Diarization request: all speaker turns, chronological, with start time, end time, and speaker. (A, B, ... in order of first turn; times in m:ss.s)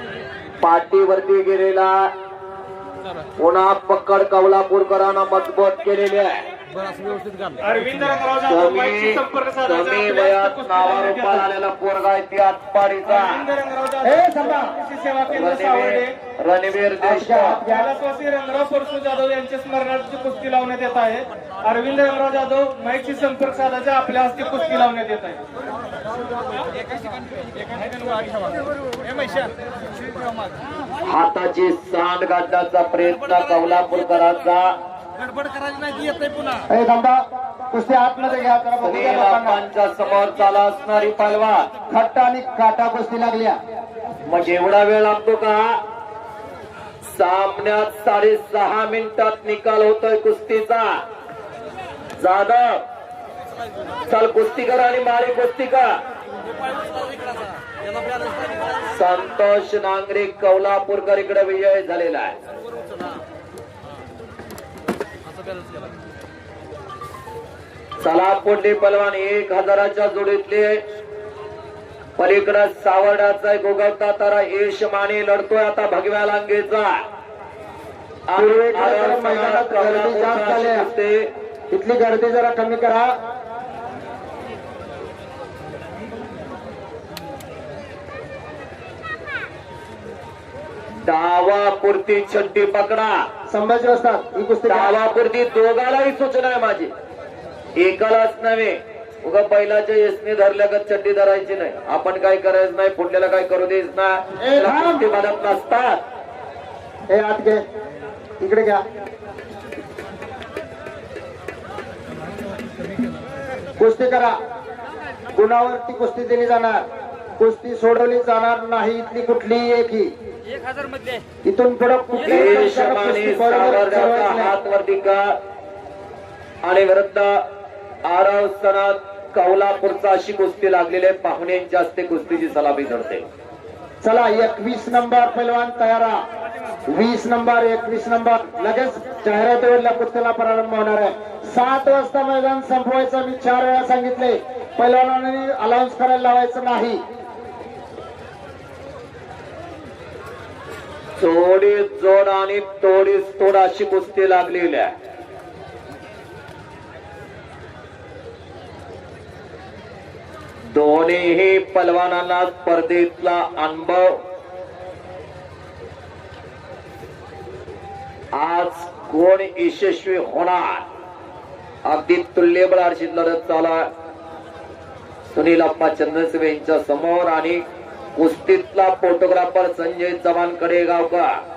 0:00.6-0:02.1 A
0:03.4-0:06.4 A
0:07.6-0:11.5 B
0:08.5-0:13.4 A
0:13.0-0:16.2 B
0:14.0-0:14.7 C
0:15.3-0:17.6 A
0:17.0-0:17.9 C
0:17.6-0:25.4 B
0:31.0-0:34.8 A
0:36.7-0:37.2 C
0:37.7-0:39.6 C
0:38.8-0:41.7 A
0:41.9-0:43.6 C
0:44.3-0:45.8 A
0:47.1-0:50.9 A
0:52.2-0:52.8 A
0:54.1-0:55.9 A
0:58.9-1:02.4 A
1:08.0-1:10.8 A
1:12.2-1:17.0 A
1:18.3-1:21.3 A
1:18.4-1:20.9 C
1:21.7-1:23.1 C
1:31.0-1:33.2 A
1:33.5-1:35.0 C
1:34.7-1:36.9 A
1:37.8-1:46.0 A
1:44.4-1:45.1 C
1:47.1-1:47.6 C
1:48.4-1:48.8 C
1:53.8-1:54.4 C
1:55.3-1:56.9 C
1:57.4-2:00.1 C
2:01.5-2:04.6 C
2:02.2-2:05.3 A
2:06.6-2:07.4 A
2:08.0-2:13.2 A
2:14.0-2:16.2 C
2:16.9-2:27.0 C
2:31.2-2:34.9 A
2:40.7-2:44.2 A
2:48.4-2:50.8 A
2:51.8-2:53.9 A
2:55.3-2:57.6 A
2:58.2-3:01.3 A